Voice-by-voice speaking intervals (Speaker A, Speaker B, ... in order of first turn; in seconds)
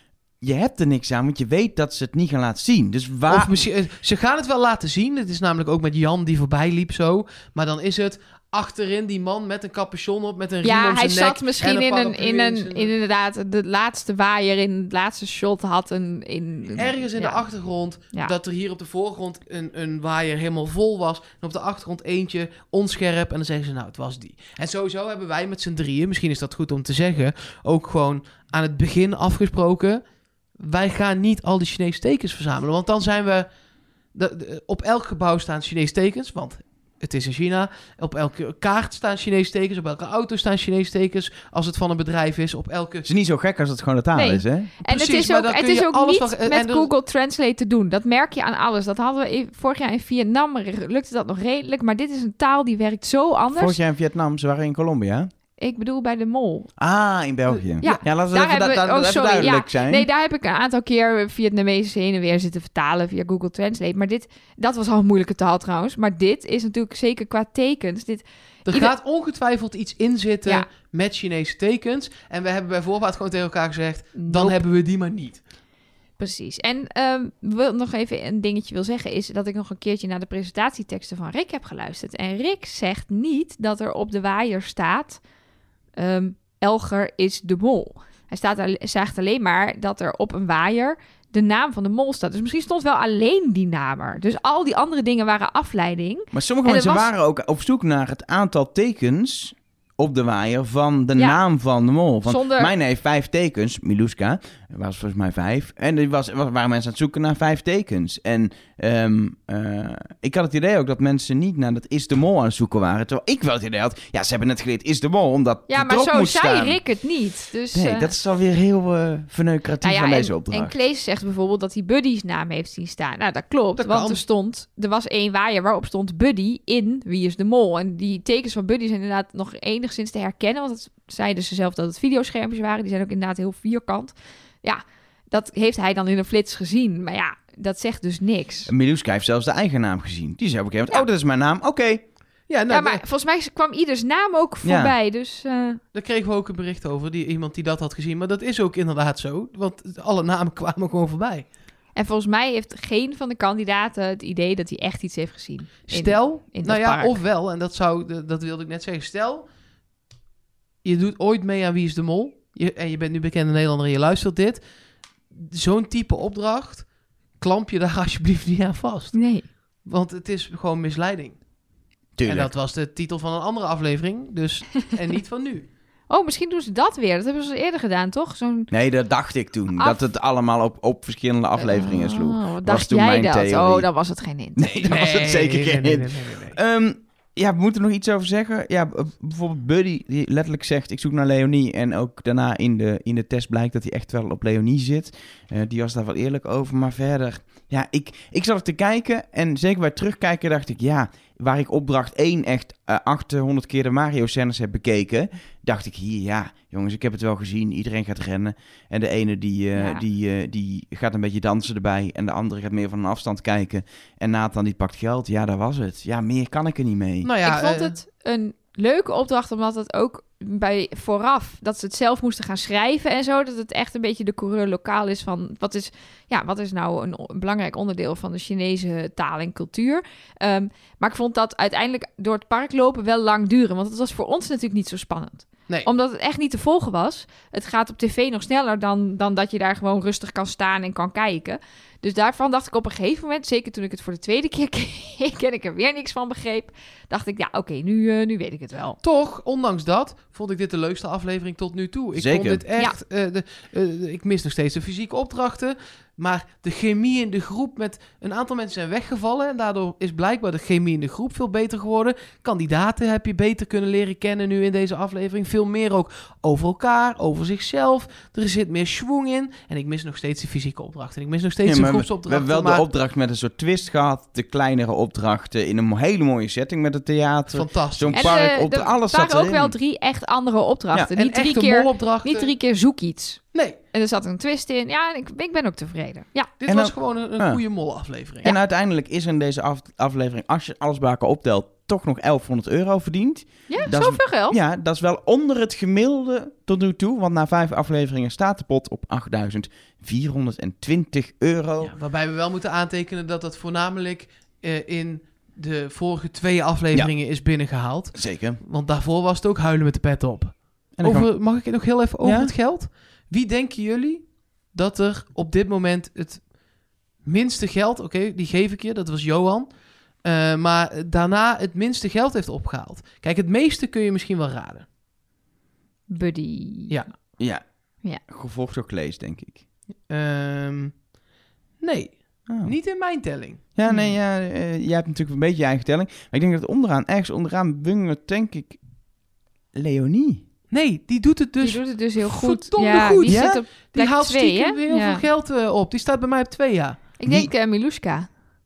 Speaker A: 0.4-3.5, 43.0-44.7, 53.5-55.3, 56.8-60.0, 96.3-116.8, 117.7-120.7, 138.7-142.1, 144.6-144.9, 172.2-172.5, 178.7-183.9, 184.6-217.3, 252.1-252.6, 271.6-279.8, 286.7-287.6, 288.4-301.9, 308.1-308.6, 310.9-311.3, 312.2-312.5, 327.4-327.6, 328.2-329.6, 332.5-332.7, 333.8-338.8, 339.7-340.4, 343.3-343.6
Speaker B: 3.3-12.9, 16.7-30.0, 30.5-33.5, 34.1-43.1, 44.8-46.9, 68.7-75.4, 123.8-124.2, 142.5-143.0, 145.9-151.5, 155.9-159.4, 160.8-164.6, 165.3-171.4, 172.2-175.7, 184.8-186.6, 217.2-218.0, 249.0-272.8, 277.5-278.4, 281.1-282.5, 286.6-288.5, 301.8-316.5, 317.2-319.7, 320.2-324.9, 330.1-331.1, 331.8-333.6, 340.7-347.0
Speaker C: 10.6-17.4, 44.1-53.8, 55.6-56.7, 57.5-68.9, 74.2-74.6, 76.2-85.2, 86.0-97.1, 102.2-102.7, 115.7-118.1, 119.8-138.7, 142.7-145.8, 151.9-157.2, 169.1-169.5, 176.1-178.7, 179.7-180.0, 181.6-184.8, 209.7-210.0, 217.4-249.0, 278.1-286.5, 293.7-294.6, 326.1-327.0, 333.8-334.1, 341.6-345.2, 347.2-348.3